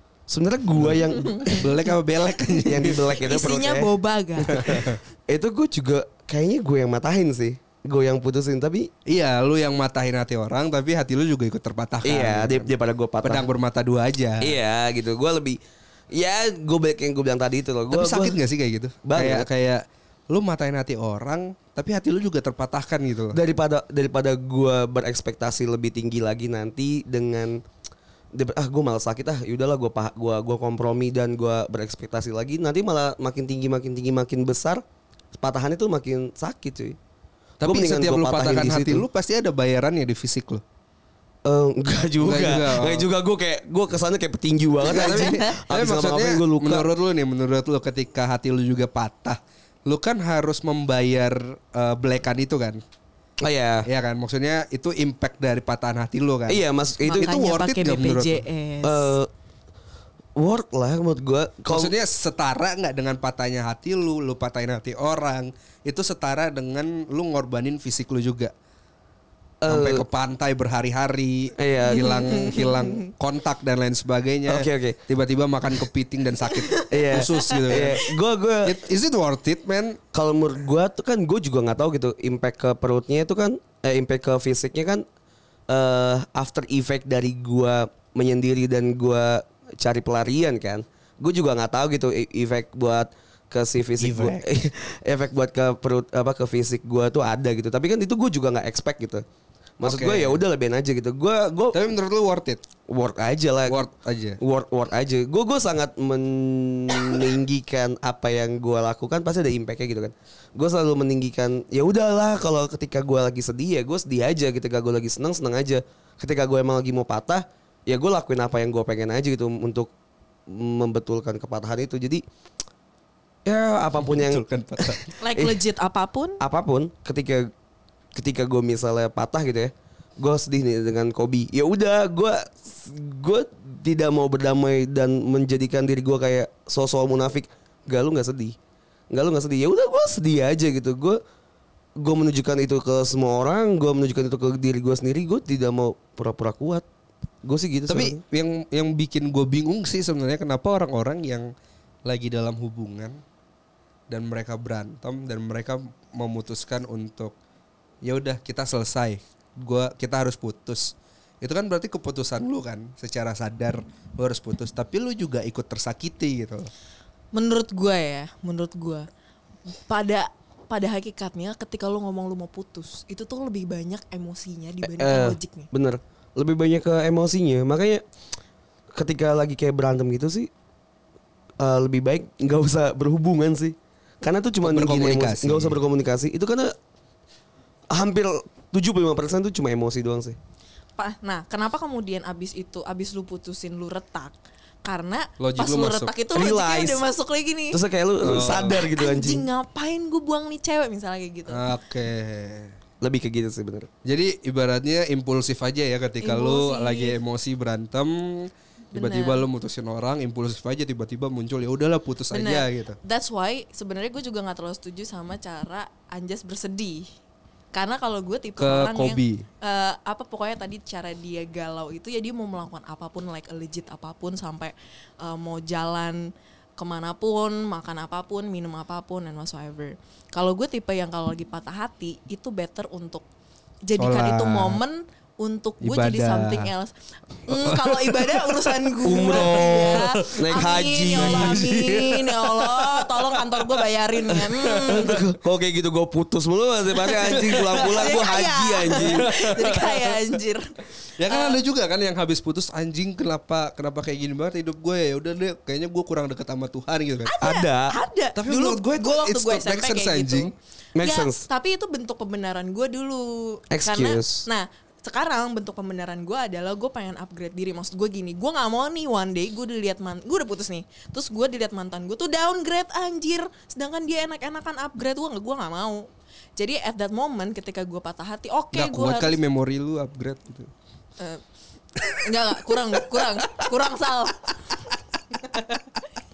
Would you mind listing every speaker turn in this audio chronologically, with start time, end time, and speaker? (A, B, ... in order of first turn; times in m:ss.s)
0:00.3-0:01.6 A
0:00.8-0:03.1 B
0:01.1-0:01.7 C
0:02.6-0:03.9 A
0:03.2-0:04.9 C
0:04.5-0:05.0 B
0:04.5-0:08.9 A
0:09.0-0:12.7 B
0:12.0-0:13.4 A
0:13.2-0:14.6 B
0:14.4-0:15.6 A
0:16.1-0:18.4 A
0:17.9-0:23.4 B
0:19.0-0:19.5 A
0:23.3-0:27.6 A
0:28.3-0:34.8 A
0:35.3-0:37.0 A
0:37.6-0:39.0 A
0:37.6-0:40.6 B
0:41.4-0:46.9 A
0:42.2-0:43.1 B
0:44.8-0:52.8 B
0:44.9-0:45.5 C
0:53.4-0:53.9 A
0:53.8-0:56.6 B
0:56.5-0:57.3 A
0:57.0-0:59.1 C
0:57.1-0:58.4 B
0:58.8-0:59.3 A
1:00.4-1:01.9 A
1:01.7-1:08.5 B
1:09.6-1:10.0 A
1:09.7-1:18.0 B
1:11.6-1:12.5 A
1:11.9-1:13.1 C
1:14.5-1:15.0 A
1:16.5-1:17.9 C
1:16.9-1:18.8 A
1:18.6-1:20.0 B
1:20.1-1:25.0 A
1:25.7-1:39.2 A
1:34.0-1:34.4 B
1:39.8-1:41.8 A
1:39.8-1:40.4 B
1:41.7-1:42.6 B
1:42.9-1:43.8 A
1:43.7-1:44.4 B
1:44.4-1:59.9 A
2:00.5-2:02.2 A
2:03.4-2:05.5 A
2:04.0-2:05.1 B
2:05.2-2:06.4 C
2:06.4-2:07.5 A
2:08.1-2:18.5 A
2:19.1-2:21.2 A
2:22.0-2:26.8 A
2:27.4-2:28.2 A
2:27.9-2:31.5 B
2:32.0-2:33.2 B
2:34.1-2:37.3 B
2:38.0-2:46.7 B
2:47.3-2:49.0 C
2:49.9-2:55.7 C
2:54.8-2:58.0 A
2:58.9-3:00.5 A
3:01.6-3:06.7 A
3:04.6-3:05.8 B
3:07.9-3:10.4 A
3:11.0-3:17.8 C
3:15.4-3:16.1 B
3:16.3-3:17.0 A
3:17.7-3:19.4 A
3:18.2-3:18.8 B
3:18.4-3:21.6 C
3:21.5-3:22.7 B
3:23.0-3:23.9 A
3:24.0-3:33.0 B
3:26.2-3:27.2 C
3:28.9-3:29.4 C
3:32.3-3:37.1 C
3:37.7-3:53.2 C
3:38.6-3:39.4 B
3:53.8-3:56.9 C
3:54.0-3:54.8 B
3:55.8-3:56.7 B
3:57.4-4:05.2 C
3:57.5-4:00.3 B
3:59.0-4:02.0 A
4:01.2-4:03.6 B
4:04.6-4:05.2 B
4:04.8-4:09.3 A
4:07.0-4:10.7 C
4:07.5-4:08.1 B
4:09.0-4:10.1 B
4:11.2-4:17.3 B
4:11.3-4:11.6 C
4:17.2-4:36.0 C
4:17.4-4:17.9 A
4:18.4-4:20.5 B
4:21.0-4:21.4 A
4:23.7-4:24.4 A
4:36.6-4:39.4 C
4:38.7-4:40.7 B
4:42.1-4:45.9 C